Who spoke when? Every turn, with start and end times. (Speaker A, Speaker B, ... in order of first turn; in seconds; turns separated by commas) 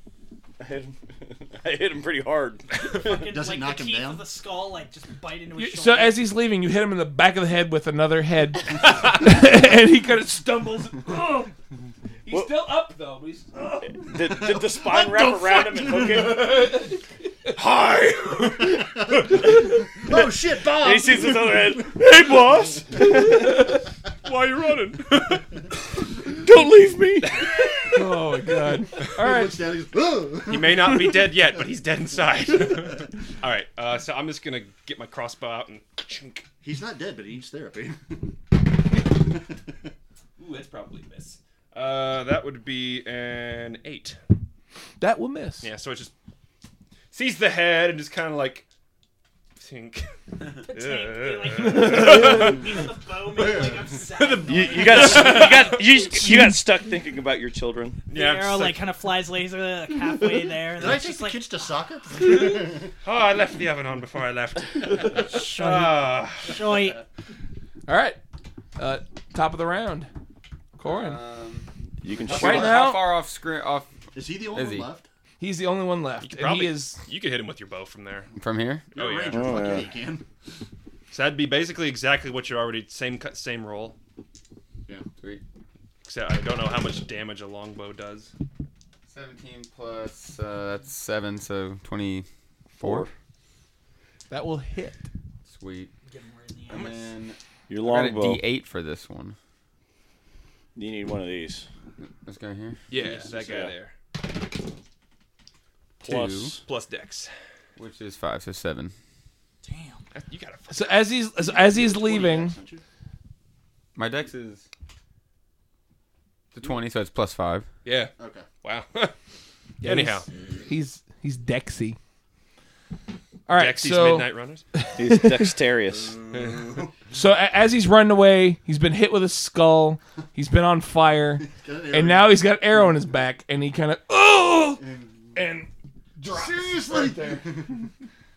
Speaker A: 0.6-2.9, Speaker B: 2.9-6.3, Speaker C: 3.1-4.3, Speaker D: 5.6-11.5, Speaker D: 12.3-13.8, Speaker A: 12.3-12.7, Speaker A: 13.8-16.7, Speaker C: 14.1-16.6, Speaker D: 16.3-17.0, Speaker E: 17.6-18.7, Speaker C: 18.6-22.2, Speaker A: 20.6-23.7, Speaker E: 24.2-25.5, Speaker A: 26.4-27.5, Speaker D: 27.8-29.6, Speaker C: 29.1-31.3, Speaker E: 30.5-36.5, Speaker C: 36.6-38.3, Speaker E: 40.4-44.2, Speaker D: 45.0-45.7, Speaker E: 45.6-46.1, Speaker E: 47.1-48.7, Speaker E: 49.6-50.1, Speaker E: 50.6-52.6, Speaker B: 50.6-55.8, Speaker D: 51.6-52.6, Speaker C: 53.4-54.0, Speaker E: 54.2-55.9, Speaker A: 54.5-58.0, Speaker E: 58.1-58.9, Speaker B: 58.1-61.7, Speaker C: 60.8-62.9, Speaker E: 63.0-66.6, Speaker B: 65.1-67.0, Speaker D: 67.9-68.2, Speaker D: 68.8-70.1, Speaker D: 70.8-71.2, Speaker F: 70.8-71.7, Speaker A: 72.0-73.0, Speaker F: 72.2-74.9, Speaker D: 72.3-73.1, Speaker C: 74.1-75.1, Speaker D: 75.4-77.0, Speaker E: 76.2-78.3, Speaker F: 78.4-78.9, Speaker C: 78.9-80.2, Speaker E: 79.0-79.8, Speaker A: 79.3-79.9, Speaker E: 81.1-84.0, Speaker E: 86.0-88.3, Speaker F: 89.1-92.3, Speaker A: 92.8-93.1, Speaker F: 92.8-93.1, Speaker D: 94.3-95.0, Speaker F: 95.5-95.9, Speaker B: 96.1-97.0, Speaker F: 96.7-99.4, Speaker A: 97.7-98.5, Speaker A: 100.8-101.7, Speaker F: 102.0-102.8, Speaker E: 102.9-103.9, Speaker A: 103.0-103.7, Speaker A: 106.0-106.6, Speaker F: 106.0-106.5, Speaker E: 106.6-107.3, Speaker F: 107.8-108.9, Speaker B: 109.6-110.1, Speaker E: 110.1-111.1, Speaker D: 110.7-112.6, Speaker C: 111.4-112.8, Speaker F: 114.0-114.7, Speaker F: 116.5-117.7, Speaker E: 117.8-119.1, Speaker C: 118.2-118.5, Speaker D: 119.8-122.0, Speaker E: 119.8-120.3, Speaker D: 123.5-125.6, Speaker E: 123.5-124.7, Speaker A: 125.0-126.2, Speaker C: 126.0-126.9, Speaker E: 126.3-126.8, Speaker D: 127.1-137.8, Speaker C: 131.4-132.4, Speaker C: 134.8-135.3, Speaker C: 136.2-137.9